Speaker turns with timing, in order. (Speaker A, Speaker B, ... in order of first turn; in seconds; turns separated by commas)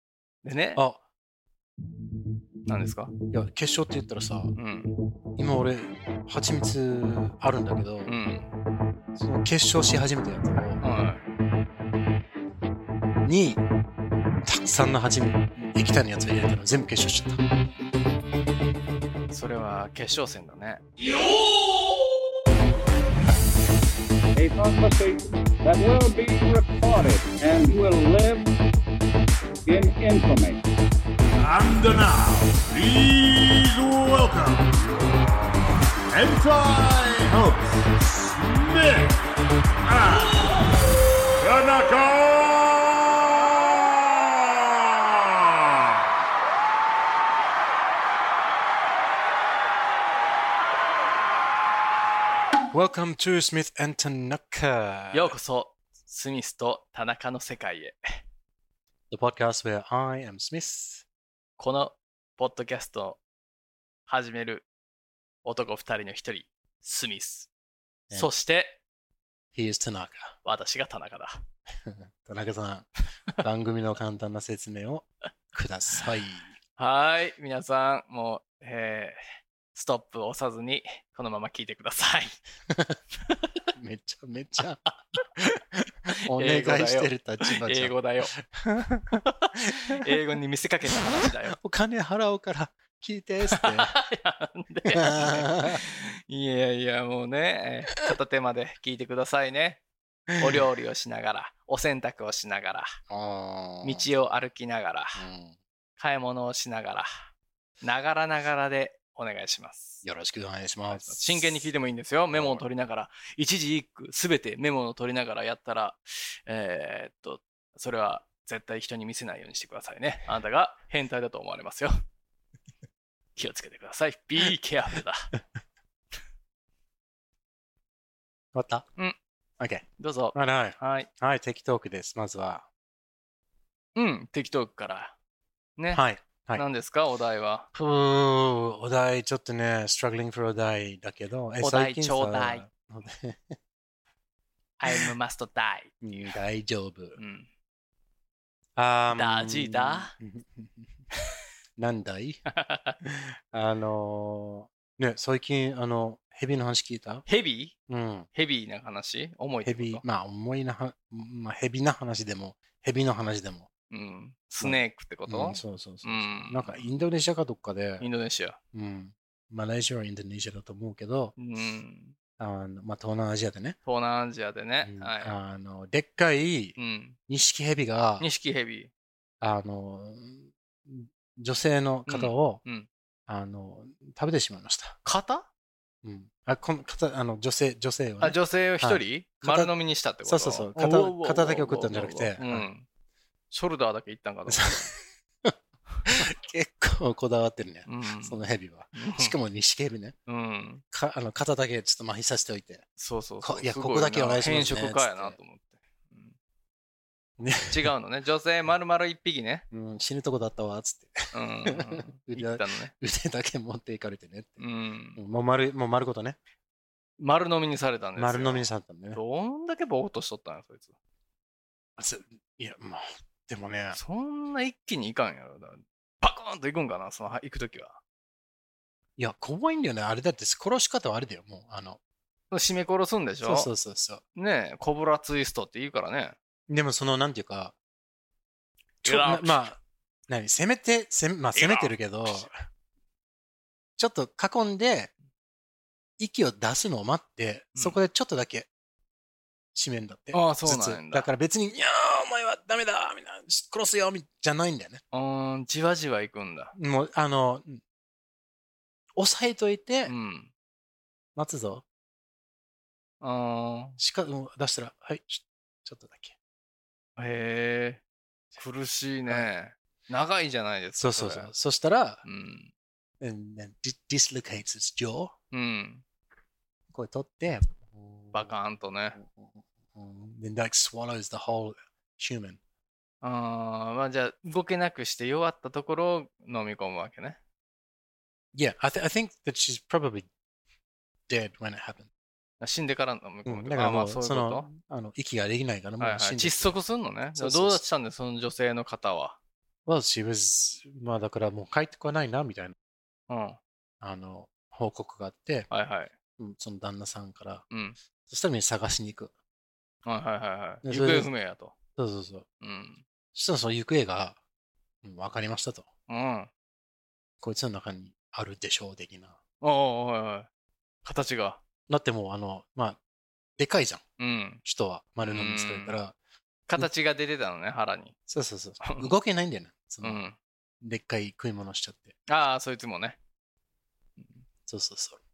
Speaker A: 0.4-0.8, Speaker A: 2.7-3.1, Speaker B: 3.3-4.5, Speaker A: 4.6-4.9, Speaker B: 5.4-8.1, Speaker A: 8.1-8.5, Speaker B: 9.1-10.8, Speaker A: 10.8-11.2, Speaker B: 13.2-13.6, Speaker B: 14.4-17.4, Speaker A: 19.3-20.8, Speaker C: 24.3-28.5, Speaker C: 29.7-30.6, Speaker D: 31.4-35.6, Speaker D: 36.1-39.3, Speaker D: 39.8-40.6, Speaker D: 41.4-45.5, Speaker B: 52.7-55.4, Speaker A: 55.1-58.2, Speaker B: 59.1-61.0, Speaker A: 61.6-63.2, Speaker A: 64.1-64.7, Speaker A: 65.4-67.5, Speaker A: 68.1-68.8, Speaker B: 69.5-70.3, Speaker A: 70.4-71.4, Speaker B: 71.8-76.5, Speaker A: 76.8-79.2, Speaker A: 79.7-82.4, Speaker B: 82.7-83.0, Speaker B: 83.7-84.8, Speaker B: 85.3-90.2, Speaker A: 86.3-88.3, Speaker A: 89.2-91.6, Speaker B: 91.0-93.9, Speaker A: 93.5-99.8, Speaker B: 94.9-95.8, Speaker B: 100.3-100.6, Speaker A: 100.4-103.0, Speaker B: 103.1-104.1, Speaker A: 103.8-105.2, Speaker B: 105.2-105.6, Speaker A: 106.0-107.1, Speaker A: 107.8-110.0, Speaker B: 110.0-111.5, Speaker A: 110.9-121.9, Speaker B: 112.3-112.6, Speaker A: 123.4-125.3, Speaker B: 128.5-128.9, Speaker B: 129.6-132.7, Speaker A: 130.0-131.1, Speaker A: 134.0-135.1, Speaker A: 135.8-136.0, Speaker B: 135.9-136.6, Speaker A: 136.6-137.7, Speaker B: 137.7-143.6, Speaker A: 141.6-142.6, Speaker A: 144.8-145.9, Speaker B: 146.0-147.2, Speaker A: 147.2-147.5, Speaker B: 148.8-151.0, Speaker A: 149.1-150.1, Speaker B: 151.8-152.4, Speaker A: 152.5-153.0, Speaker B: 153.0-157.3, Speaker A: 157.3-157.7, Speaker B: 157.9-158.3, Speaker A: 158.3-160.0, Speaker B: 159.6-163.7, Speaker A: 163.9-166.9, Speaker B: 164.6-168.1, Speaker A: 168.0-168.6, Speaker B: 168.7-171.4, Speaker A: 171.4-172.2, Speaker B: 172.4-173.8, Speaker A: 173.9-175.4, Speaker B: 174.8-176.8, Speaker A: 176.8-177.2, Speaker B: 177.3-178.3, Speaker A: 178.2-178.9, Speaker B: 179.4-182.6, Speaker A: 182.1-182.9, Speaker B: 183.3-185.0, Speaker A: 185.0-185.5, Speaker B: 186.0-189.7, Speaker A: 188.2-192.9, Speaker B: 190.2-192.7, Speaker A: 193.5-195.0, Speaker B: 194.5-200.2, Speaker A: 197.9-198.4, Speaker A: 198.9-199.3, Speaker A: 200.3-200.8, Speaker B: 200.9-202.8, Speaker A: 203.0-206.3, Speaker B: 203.4-205.4, Speaker B: 207.4-207.9, Speaker A: 207.7-209.7, Speaker B: 209.7-214.6, Speaker A: 211.3-212.9, Speaker A: 214.6-215.2, Speaker B: 215.2-216.4, Speaker A: 217.2-220.9, Speaker B: 218.2-219.2, Speaker B: 222.0-224.0, Speaker A: 223.9-228.0, Speaker B: 229.2-232.0, Speaker A: 232.5-233.7, Speaker B: 233.4-234.2, Speaker A: 234.4-236.4, Speaker B: 236.7-237.8, Speaker B: 239.0-242.6, Speaker A: 239.0-239.7, Speaker A: 241.5-242.5, Speaker B: 244.0-245.1, Speaker B: 246.2-248.7, Speaker B: 249.7-255.0, Speaker A: 250.3-251.3, Speaker A: 255.1-256.7, Speaker B: 256.8-257.8, Speaker B: 259.2-260.1, Speaker A: 260.1-260.5, Speaker B: 261.4-261.8, Speaker A: 263.2-264.0, Speaker B: 264.0-266.4, Speaker A: 267.2-268.0, Speaker A: 268.6-271.5, Speaker B: 271.0-272.2, Speaker A: 272.2-272.7, Speaker B: 273.2-275.3, Speaker A: 275.5-276.0, Speaker B: 276.9-278.5, Speaker A: 278.3-279.2, Speaker B: 279.2-282.6, Speaker A: 283.2-287.4, Speaker B: 288.5-290.3, Speaker B: 291.3-292.1, Speaker A: 292.6-294.7, Speaker B: 293.5-296.8, Speaker A: 296.0-299.4, Speaker B: 297.4-297.8, Speaker B: 299.9-302.8, Speaker A: 303.3-303.6, Speaker B: 304.0-305.7, Speaker A: 305.7-306.1, Speaker B: 306.4-307.6, Speaker A: 307.7-308.0, Speaker B: 308.3-309.3, Speaker A: 310.1-311.8, Speaker B: 310.8-311.3, Speaker B: 312.0-312.5, Speaker A: 312.6-313.0, Speaker B: 313.3-314.4, Speaker B: 315.0-315.9, Speaker A: 316.1-316.5, Speaker B: 317.4-319.4, Speaker A: 319.6-320.5, Speaker A: 321.0-321.6, Speaker B: 321.9-323.0, Speaker B: 323.6-324.0, Speaker A: 324.2-324.6, Speaker B: 324.6-326.1, Speaker A: 325.2-326.0, Speaker A: 326.7-328.1, Speaker B: 328.3-330.2, Speaker A: 328.8-329.1, Speaker A: 330.0-330.4, Speaker B: 330.8-332.1, Speaker A: 332.3-333.2, Speaker A: 334.2-334.4, Speaker B: 334.7-335.2